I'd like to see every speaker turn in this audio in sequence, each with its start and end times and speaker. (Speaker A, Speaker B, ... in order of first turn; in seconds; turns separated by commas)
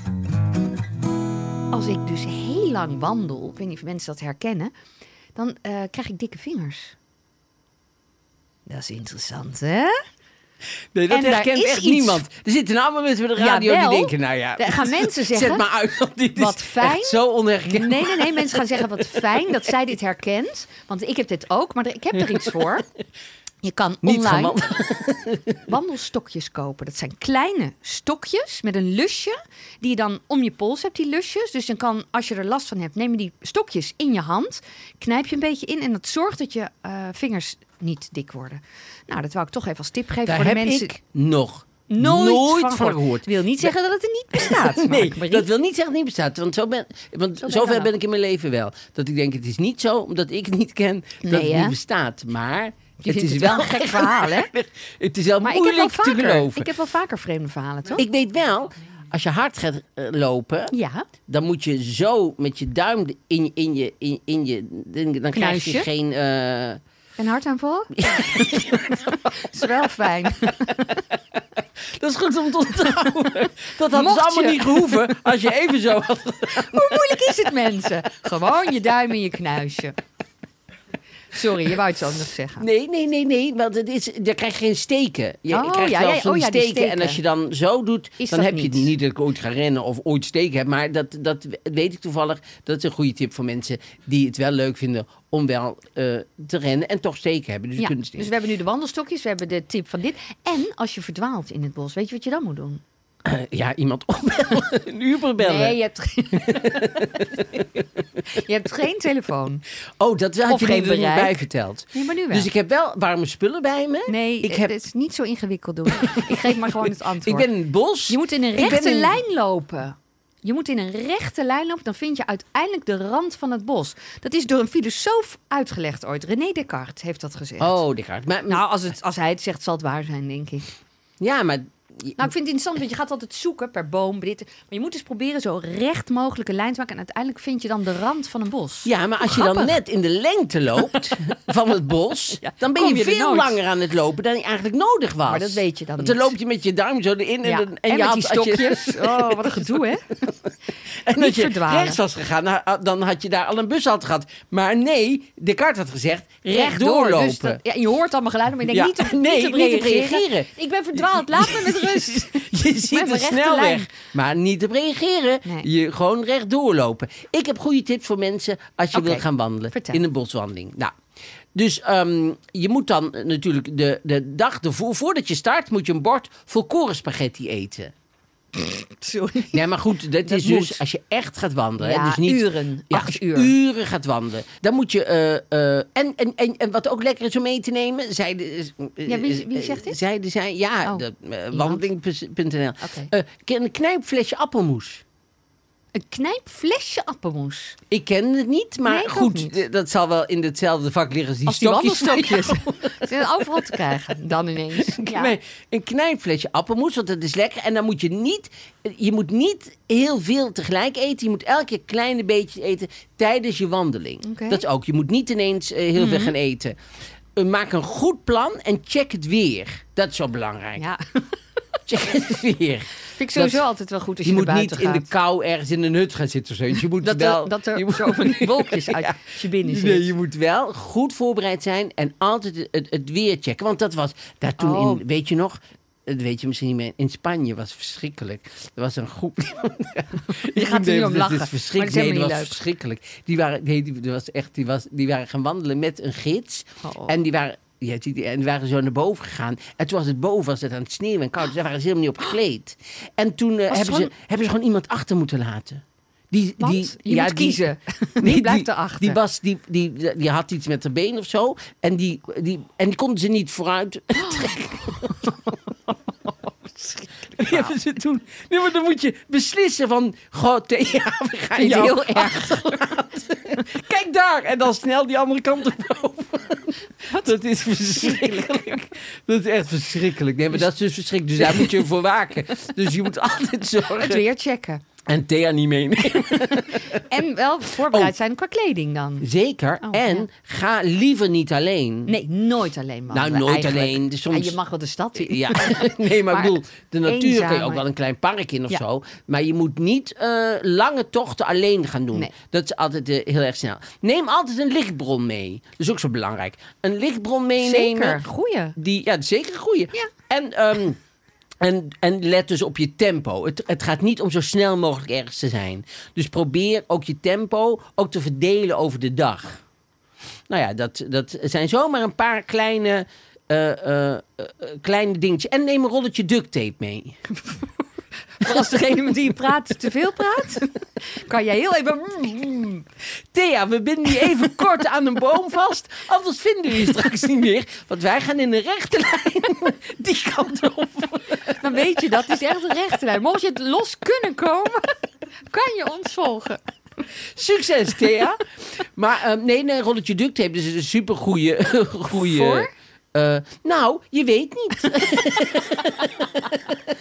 Speaker A: 1.7-4.7, Speaker A: 5.3-6.9, Speaker A: 8.7-10.0, Speaker B: 10.9-19.5, Speaker A: 11.1-12.2, Speaker A: 13.4-15.7, Speaker A: 16.3-22.9, Speaker A: 23.6-24.6, Speaker B: 24.0-25.6, Speaker A: 25.7-41.0, Speaker B: 40.2-43.7, Speaker A: 41.9-45.5, Speaker B: 44.3-56.7, Speaker A: 47.4-47.9, Speaker A: 51.2-51.8, Speaker A: 53.0-54.5, Speaker A: 55.4-58.0, Speaker B: 57.9-60.7, Speaker A: 60.7-61.1, Speaker B: 61.3-66.8, Speaker A: 65.3-65.9, Speaker A: 67.2-71.0, Speaker B: 67.9-69.4, Speaker B: 71.8-77.4, Speaker A: 73.9-75.0, Speaker A: 76.5-80.0, Speaker A: 81.3-82.7, Speaker B: 82.6-98.3, Speaker A: 85.5-87.2, Speaker A: 88.2-88.9, Speaker A: 97.8-102.8, Speaker B: 103.2-105.8, Speaker A: 105.4-107.2, Speaker B: 106.3-107.8, Speaker A: 108.2-109.6, Speaker B: 110.0-114.7, Speaker A: 110.5-112.5, Speaker A: 114.1-117.5, Speaker B: 116.0-119.2, Speaker A: 118.1-127.8, Speaker B: 127.6-128.6, Speaker A: 128.5-130.7, Speaker B: 131.2-132.3, Speaker A: 132.2-139.8, Speaker B: 138.8-150.3, Speaker A: 142.4-143.6, Speaker A: 145.2-146.3, Speaker A: 147.4-150.2, Speaker B: 151.0-157.6, Speaker A: 151.1-152.0, Speaker A: 156.5-163.9, Speaker B: 158.7-170.9, Speaker A: 168.9-170.0, Speaker B: 171.5-177.9, Speaker A: 178.5-179.6, Speaker B: 179.5-195.0, Speaker A: 180.2-180.8, Speaker A: 181.8-183.5, Speaker A: 189.1-190.0, Speaker A: 190.8-191.8, Speaker A: 192.8-193.1, Speaker A: 195.9-197.8, Speaker B: 197.9-203.8, Speaker A: 198.8-199.6, Speaker A: 201.4-205.3, Speaker B: 204.8-216.8, Speaker A: 214.2-214.6, Speaker A: 216.0-216.3, Speaker B: 217.3-220.8, Speaker A: 220.8-221.2, Speaker B: 221.9-223.6, Speaker A: 223.1-225.1, Speaker B: 224.2-257.6, Speaker A: 227.0-230.1, Speaker A: 234.6-235.0, Speaker A: 240.3-242.6, Speaker A: 246.8-247.1, Speaker A: 253.7-254.1, Speaker A: 256.6-259.2, Speaker B: 258.2-265.5, Speaker A: 264.2-265.3, Speaker A: 266.8-267.7, Speaker B: 267.3-284.2, Speaker A: 271.6-272.8, Speaker A: 277.1-277.3, Speaker A: 277.9-278.4, Speaker A: 281.4-281.7, Speaker A: 284.0-284.8, Speaker B: 285.0-287.0, Speaker A: 286.3-289.3, Speaker B: 287.8-288.1, Speaker B: 289.2-292.1, Speaker A: 289.8-290.2, Speaker A: 292.1-297.8, Speaker B: 293.1-294.6, Speaker B: 295.2-308.2, Speaker A: 307.6-308.8, Speaker B: 308.8-311.0, Speaker B: 311.6-319.6, Speaker B: 320.5-327.2, Speaker A: 328.4-332.9, Speaker B: 333.3-341.6, Speaker A: 341.4-344.9, Speaker A: 345.5-346.6, Speaker B: 347.3-356.8, Speaker A: 352.1-352.7